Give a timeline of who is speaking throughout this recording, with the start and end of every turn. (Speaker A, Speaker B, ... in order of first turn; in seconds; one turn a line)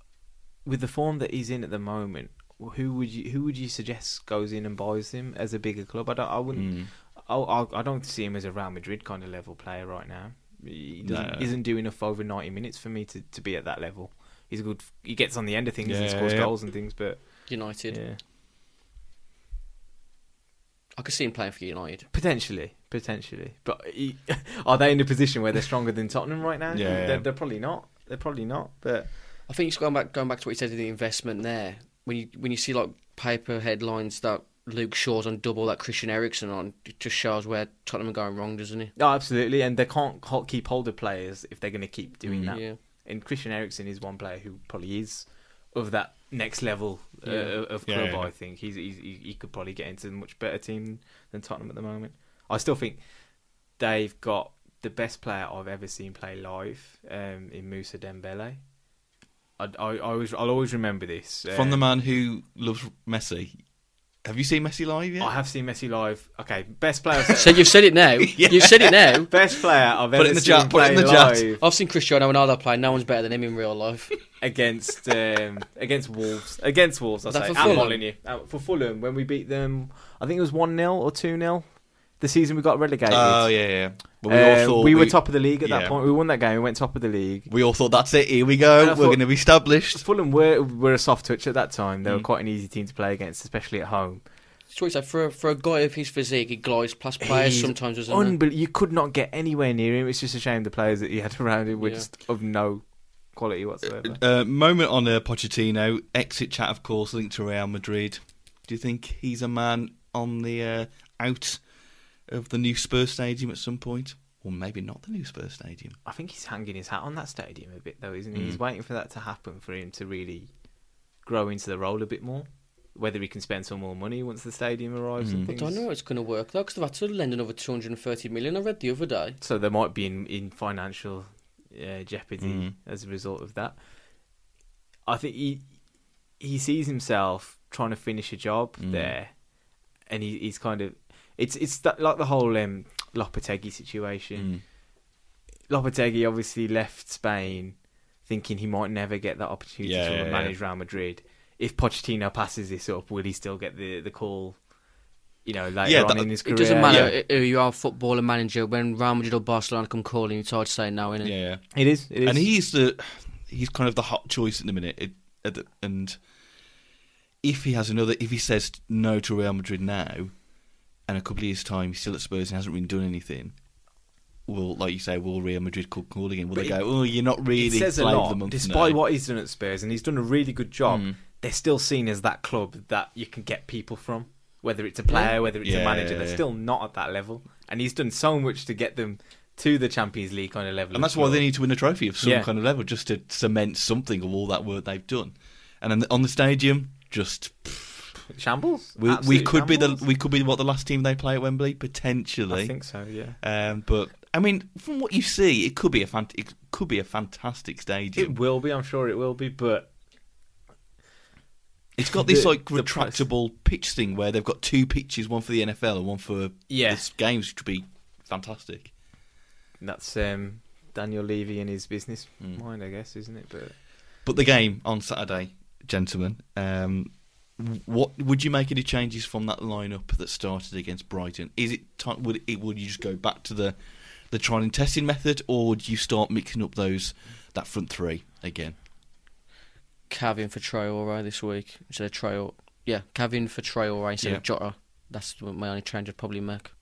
Speaker A: 0.7-18.2
Speaker B: 6.5-6.9
Speaker B: 11.0-11.5
Speaker B: 15.8-16.5
Speaker C: 17.5-18.0
Speaker C: 21.0-22.1
Speaker A: 22.1-29.1
Speaker B: 26.7-27.3
Speaker C: 29.5-38.9
Speaker A: 39.0-53.0
Speaker B: 42.3-42.5
Speaker C: 42.5-42.8
Speaker C: 47.3-47.5
Speaker B: 47.9-48.3
Speaker A: 53.8-58.6
Speaker A: 59.6-61.8
Speaker B: 61.5-63.5
Speaker B: 64.2-65.3
Speaker A: 65.2-67.7
Speaker C: 67.3-69.3
Speaker B: 68.2-69.3
Speaker A: 69.3-71.6
Speaker B: 70.1-71.5
Speaker C: 71.6-74.1
Speaker A: 74.4-87.5
Speaker C: 77.3-78.0
Speaker B: 77.6-77.9
Speaker B: 83.1-86.0
Speaker B: 87.5-90.0
Speaker A: 88.8-94.2
Speaker C: 94.7-98.4
Speaker A: 97.2-104.2
Speaker C: 101.8-102.1
Speaker B: 104.0-111.6
Speaker B: 112.3-116.0
Speaker A: 116.1-120.5
Speaker B: 118.3-118.6
Speaker A: 121.2-125.8
Speaker B: 125.2-125.5
Speaker C: 125.5-129.4
Speaker A: 129.4-133.8
Speaker B: 132.4-132.7
Speaker A: 135.1-135.7
Speaker A: 136.4-139.3
Speaker B: 138.8-139.1
Speaker A: 140.1-144.5
Speaker B: 144.4-144.6
Speaker A: 145.7-154.6
Speaker B: 149.8-150.6
Speaker A: 155.4-157.1
Speaker B: 155.8-156.3
Speaker C: 156.4-161.3
Speaker B: 156.8-157.2
Speaker B: 161.2-166.2
Speaker A: 161.7-162.5
Speaker B: 167.4-170.3
Speaker B: 171.1-173.6
Speaker B: 174.5-179.0
Speaker A: 176.6-176.8
Speaker A: 177.6-191.5
Speaker B: 180.9-181.2
Speaker B: 185.6-186.4
Speaker B: 190.9-198.1
Speaker A: 192.2-192.5
Speaker A: 198.3-200.1
Speaker B: 199.0-202.8
Speaker A: 202.5-203.4
Speaker B: 203.4-208.4
Speaker A: 208.2-209.9
Speaker B: 212.0-218.9
Speaker A: 212.1-213.2
Speaker A: 216.7-217.1
Speaker A: 219.8-223.8
Speaker B: 224.2-233.8
Speaker B: 234.3-238.8
Speaker C: 240.1-246.7